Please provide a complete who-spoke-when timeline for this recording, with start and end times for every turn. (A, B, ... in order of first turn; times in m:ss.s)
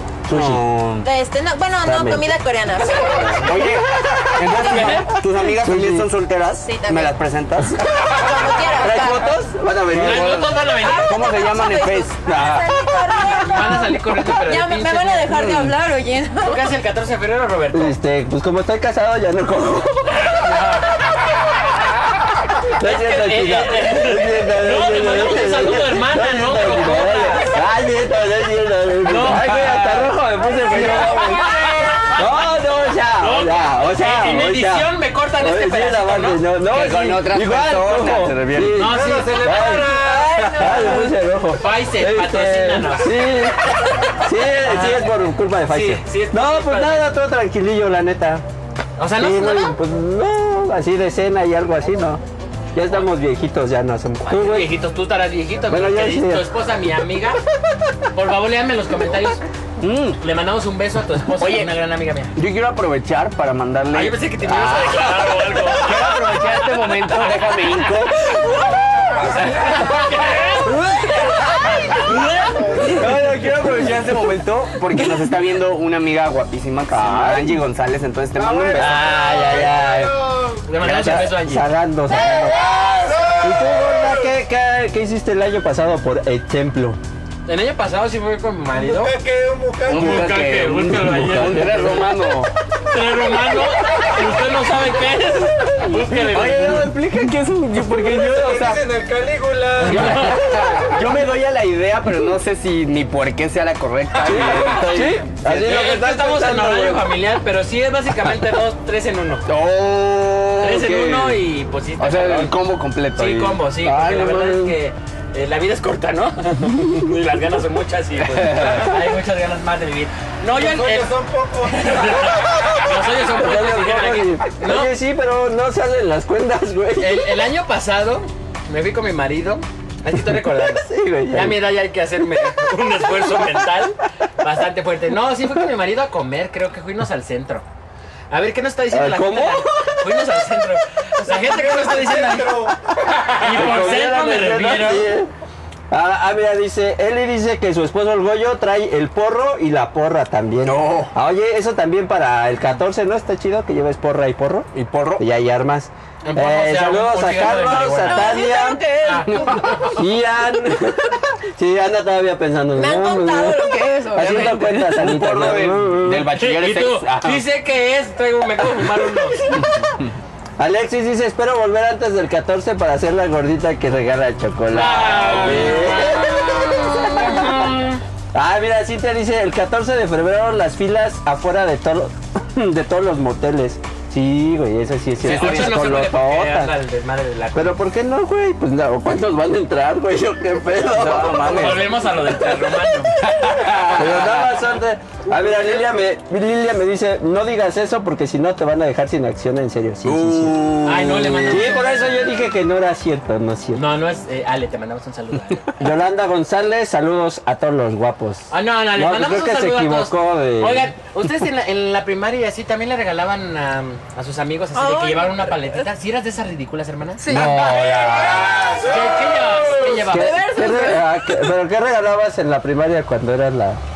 0:00.3-0:00.6 A
0:00.3-0:01.1 B
0:01.0-0:03.6 C
0:01.8-0:02.3 A
0:03.3-0:08.0 B
0:04.5-0:05.0 C
0:04.6-0:05.1 D
0:05.6-0:06.1 A
0:06.6-0:07.2 C
0:08.1-0:09.3 C
0:08.8-0:10.4 A
0:08.9-0:12.7 B
0:10.0-0:11.1 D
0:10.8-0:16.7 C
0:13.3-0:15.3 D
0:15.3-0:15.7 B
0:16.4-0:17.9 D
0:17.7-0:20.4 A
0:20.1-0:21.6 D
0:22.8-0:31.5 A
0:22.8-0:27.5 D
0:29.0-0:30.1 D
0:30.7-0:32.3 D
0:30.8-0:31.7 E
0:31.5-0:31.9 C
0:32.1-0:34.9 A
0:33.2-0:36.4 D
0:35.4-0:48.4 A
0:36.7-0:38.8 B
0:38.7-0:39.7 D
0:38.8-0:40.6 E
0:39.9-0:41.1 C
0:41.6-0:43.2 D
0:44.6-0:45.1 D
0:45.7-0:47.1 D
0:49.0-0:49.8 D
0:49.2-0:52.2 A
0:52.7-0:54.7 A
0:54.3-0:57.4 D
0:55.7-0:56.5 A
0:58.1-0:59.4 D
0:59.8-1:00.2 B
1:00.2-1:02.3 D
1:01.4-1:01.7 B
1:02.4-1:08.1 B
1:03.9-1:13.0 D
1:12.8-1:19.3 B
1:16.9-1:17.6 A
1:18.4-1:20.6 E
1:18.7-1:20.2 A
1:20.7-1:21.7 D
1:20.8-1:22.8 A
1:22.2-1:24.1 E
1:23.4-1:27.0 A
1:27.5-1:29.1 D
1:28.8-1:30.4 E
1:29.9-1:32.5 B
1:29.9-1:32.1 D
1:30.9-1:32.0 A
1:32.9-1:36.9 D
1:36.2-1:38.9 B
1:37.9-1:40.1 E
1:39.8-1:40.4 D
1:39.8-1:45.7 B
1:44.1-1:44.8 E
1:44.2-1:47.0 A
1:45.5-1:49.4 D
1:49.5-1:51.4 B
1:50.6-1:52.5 D
1:52.0-1:54.5 B
1:53.2-2:04.9 D
1:53.8-1:54.8 A
1:58.2-1:59.0 B
2:00.5-2:03.0 E
2:03.3-2:07.3 A
2:07.0-2:17.6 D
2:10.7-2:11.6 A
2:18.3-2:22.7 D
2:18.9-2:19.6 A
2:21.3-2:23.5 E
2:23.2-2:25.1 D
2:23.4-2:25.3 A
2:25.9-2:38.8 A
2:30.6-2:31.1 B
2:34.7-2:35.2 B
2:36.2-2:38.4 D
2:38.0-2:39.8 C
2:39.0-2:39.9 D
2:39.3-2:39.6 B
2:39.8-2:46.3 A
2:42.8-2:44.6 C
2:44.2-2:47.4 B
2:46.4-2:49.6 D
2:49.6-2:50.1 B
2:50.6-2:57.5 A
2:54.7-2:58.0 D
2:55.4-2:55.7 B
2:58.3-3:06.7 A
3:05.2-3:05.9 B
3:05.2-3:07.8 D
3:07.5-3:11.9 A
3:10.9-3:11.9 B
3:11.4-3:13.1 D
3:13.2-3:14.6 B
3:13.9-3:20.7 A
3:20.0-3:21.7 B
3:20.8-3:22.2 D
3:21.4-3:23.8 A
3:23.8-3:25.8 D
3:25.8-3:30.9 A
3:28.5-3:37.4 D
3:34.8-3:35.7 C
3:37.2-3:37.6 C
3:37.3-3:38.9 A
3:37.9-3:38.9 E
3:38.8-3:40.4 D
3:40.0-3:41.4 C
3:40.0-3:43.8 A